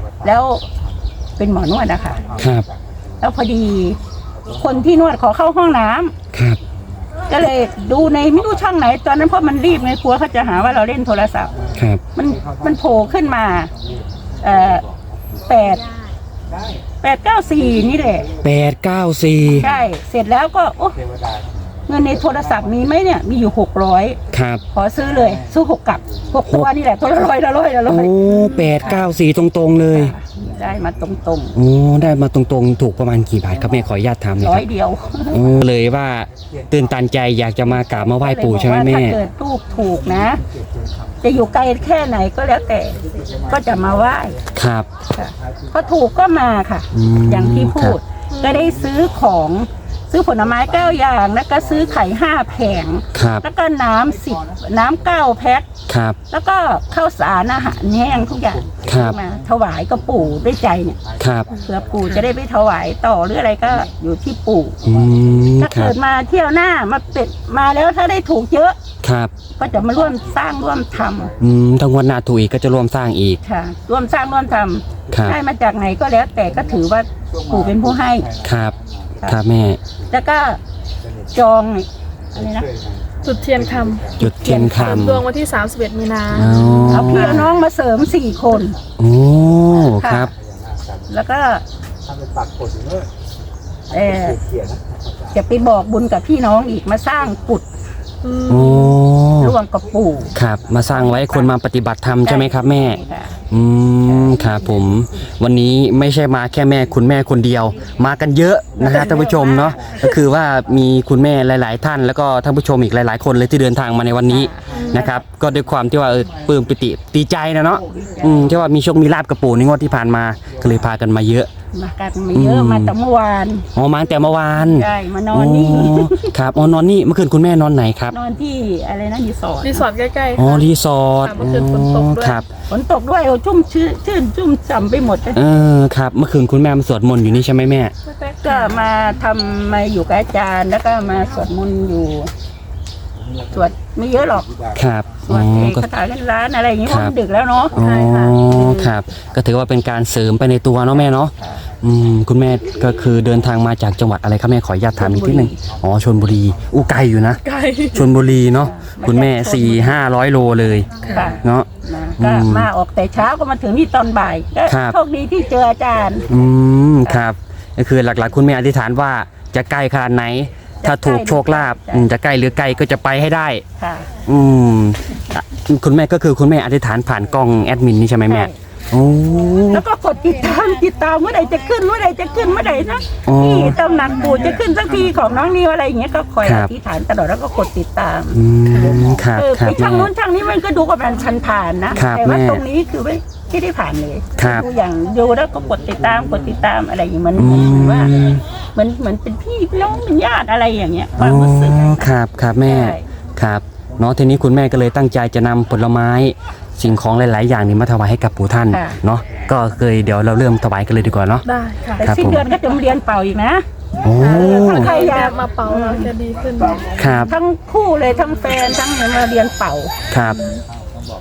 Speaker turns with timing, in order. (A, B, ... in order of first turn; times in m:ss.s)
0:00.2-0:00.6 A
0:01.4-0:02.2 A
0:02.4-0:02.7 B
0:03.2-0:04.0 A
0:04.5-0:06.1 A
0:06.3-0:06.6 B
0:07.3-0:11.5 A
0:11.8-0:12.0 B
0:12.1-0:13.7 A
0:14.4-0:14.8 A
0:15.4-0:15.9 A
0:17.0-0:18.3 A
0:18.4-0:19.7 B
0:19.6-0:21.0 A
0:21.9-0:24.2 A
0:24.3-0:24.6 B
0:24.7-0:28.2 A
0:27.9-0:30.1 B
0:29.9-0:31.6 A
0:31.5-0:34.6 B
0:34.4-0:35.4 A
0:35.3-0:39.2 B
0:38.2-0:40.4 A
0:41.2-0:44.4 A
0:44.5-0:44.9 B
0:45.1-0:55.7 A
0:46.9-0:48.0 B
0:48.3-0:48.7 C
0:53.1-0:53.4 B
0:55.9-0:56.2 B
0:56.3-1:01.0 A
0:58.8-0:59.2 B
1:01.2-1:01.5 B
1:01.5-1:04.8 A
1:04.8-1:05.9 B
1:05.6-1:08.8 A
1:09.0-1:09.3 B
1:09.6-1:11.3 A
1:11.4-1:13.4 B
1:13.4-1:18.3 A
1:15.1-1:15.4 B
1:18.4-1:19.8 B
1:20.1-1:20.6 A
1:21.3-1:22.7 A
1:23.2-1:27.0 C
1:24.2-1:25.2 B
1:26.3-1:27.5 B
1:26.9-1:28.8 A
1:29.0-1:30.3 B
1:29.9-1:30.3 A
1:31.1-1:31.6 A
1:33.9-1:34.4 A
1:35.3-1:37.7 A
1:38.2-1:39.0 C
1:38.5-1:39.5 B
1:39.4-1:40.3 A
1:40.3-2:01.5 B
1:42.2-1:43.4 A
1:48.8-1:49.4 C
1:54.3-1:55.2 A
1:54.7-1:55.0 C
2:01.7-2:03.7 A
2:02.3-2:02.9 B
2:03.7-2:08.2 B
2:04.6-2:06.3 A
2:08.1-2:09.8 A
2:09.6-2:10.7 C
2:10.4-2:12.5 B
2:11.2-2:12.4 C
2:12.7-2:15.4 A
2:15.3-2:17.9 B
2:18.0-2:18.7 C
2:18.4-2:22.3 A
2:23.5-2:24.5 A
2:24.7-2:25.9 B
2:25.2-2:28.9 A
2:26.9-2:27.1 B
2:27.7-2:37.4 B
2:27.8-2:28.4 C
2:31.4-2:31.6 A
2:35.0-2:35.6 A
2:37.4-2:38.1 C
2:37.9-2:41.7 B
2:38.5-2:39.9 A
2:41.0-2:46.2 A
2:42.2-2:42.7 B
2:44.7-2:45.0 B
2:46.3-2:53.6 B
2:50.8-2:52.1 A
2:53.8-2:54.1 A
2:54.2-2:59.8 B
2:58.3-2:58.6 A
2:59.7-3:08.4 A
3:03.2-3:03.8 B
3:06.4-3:06.7 B
3:08.3-3:10.1 B
3:09.3-3:18.1 A
3:11.9-3:12.6 B
3:14.4-3:14.6 B
3:17.4-3:18.4 B
3:18.7-3:22.0 A
3:21.2-3:31.4 B
3:22.6-3:23.0 A
3:28.7-3:29.0 A
3:31.4-3:32.0 C
3:32.0-3:33.6 A
3:32.0-3:32.5 B
3:34.0-3:35.0 B
3:34.2-3:36.1 A
3:34.2-3:36.9 C
3:36.9-3:37.3 B
3:37.0-3:39.9 A
3:40.1-3:40.4 B
3:40.2-3:40.6 C